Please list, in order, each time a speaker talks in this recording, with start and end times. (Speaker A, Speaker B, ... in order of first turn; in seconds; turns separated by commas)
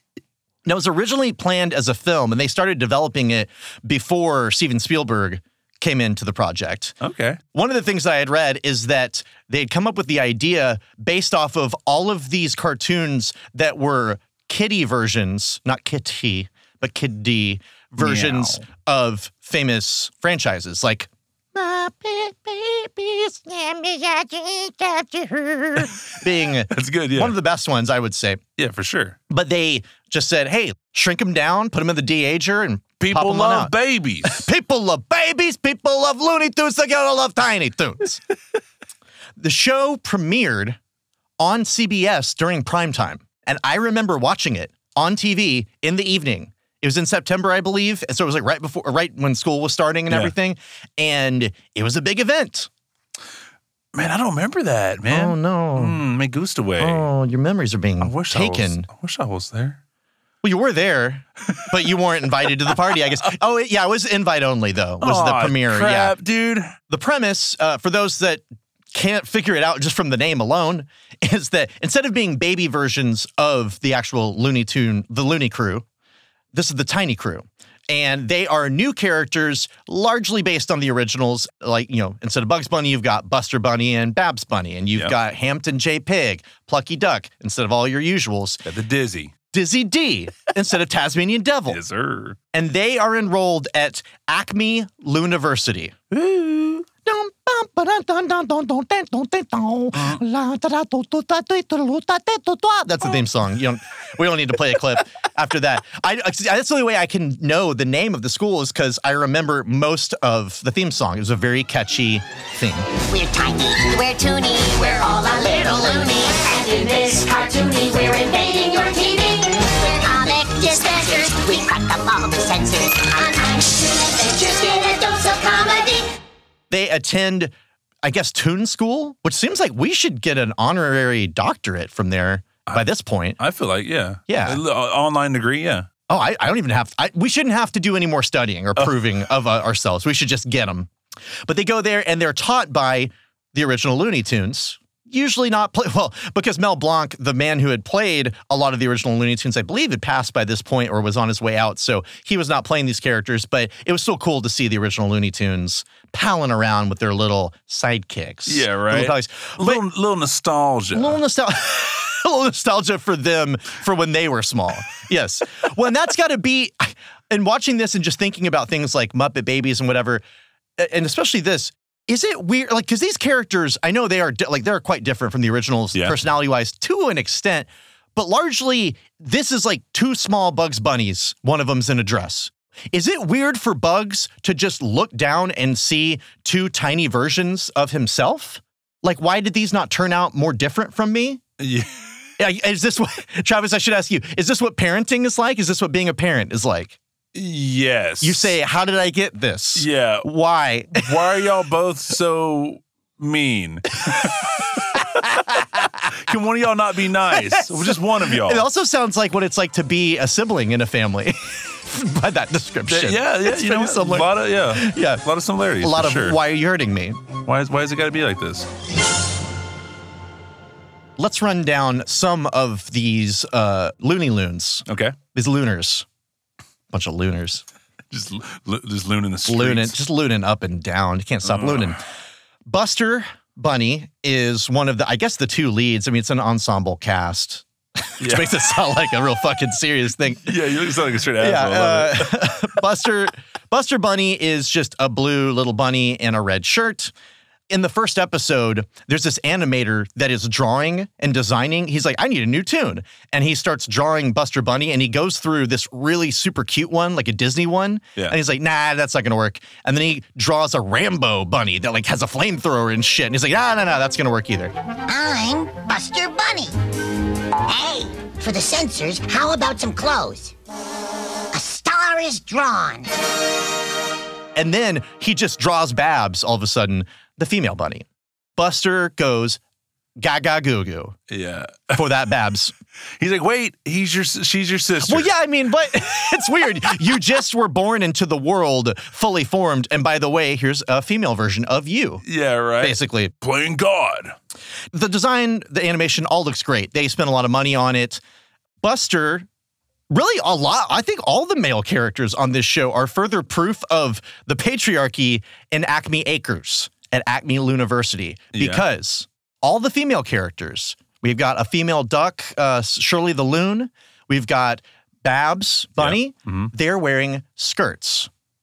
Speaker A: 0.6-7.0, Speaker B: 7.0-7.4, Speaker A: 7.5-28.4, Speaker B: 18.0-18.6, Speaker B: 26.7-27.4, Speaker B: 28.6-29.2, Speaker A: 29.3-38.2, Speaker B: 33.0-34.5, Speaker A: 39.4-40.8, Speaker A: 41.4-52.7, Speaker B: 53.9-57.1, Speaker A: 55.1-56.0, Speaker A: 56.8-58.9, Speaker B: 58.0-59.8, Speaker A: 60.4-66.2, Speaker B: 65.0-66.7, Speaker A: 66.9-75.8, Speaker A: 76.5-88.6, Speaker B: 88.6-89.3, Speaker A: 89.5-91.8, Speaker B: 91.7-92.4, Speaker A: 92.5-112.9, Speaker C: 113.1-126.0, Speaker A: 126.7-133.4, Speaker B: 133.4-135.9, Speaker A: 134.3-134.6, Speaker A: 136.1-140.9, Speaker A: 141.5-159.8, Speaker B: 158.5-161.2, Speaker A: 160.9-170.2, Speaker A: 170.8-191.4, Speaker B: 191.6-192.1, Speaker A: 192.4-197.0, Speaker B: 197.3-198.5, Speaker A: 198.2-201.4, Speaker B: 199.7-200.3, Speaker B: 200.9-205.4, Speaker A: 204.9-205.9, Speaker B: 206.1-208.7, Speaker A: 207.3-215.2, Speaker B: 212.8-216.4, Speaker A: 215.8-217.2, Speaker B: 217.4-218.7, Speaker A: 221.2-226.1, Speaker B: 224.9-225.2, Speaker A: 226.9-227.6, Speaker B: 228.1-230.0, Speaker A: 229.4-232.0, Speaker B: 231.4-232.0, Speaker A: 232.7-240.6, Speaker B: 238.2-238.6, Speaker B: 240.4-242.5, Speaker A: 241.4-247.1, Speaker A: 247.7-264.7, Speaker C: 265.1-266.7, Speaker C: 267.7-270.5, Speaker C: 271.5-273.1, Speaker A: 274.6-279.6, Speaker A: 280.2-281.1, Speaker B: 281.3-282.0, Speaker A: 281.9-282.7, Speaker B: 283.2-285.3, Speaker A: 285.0-292.2, Speaker B: 292.2-294.4, Speaker A: 292.8-293.3, Speaker A: 294.9-298.2, Speaker A: 298.8-299.4, Speaker A: 300.1-318.3, Speaker B: 308.5-308.9, Speaker B: 316.0-316.7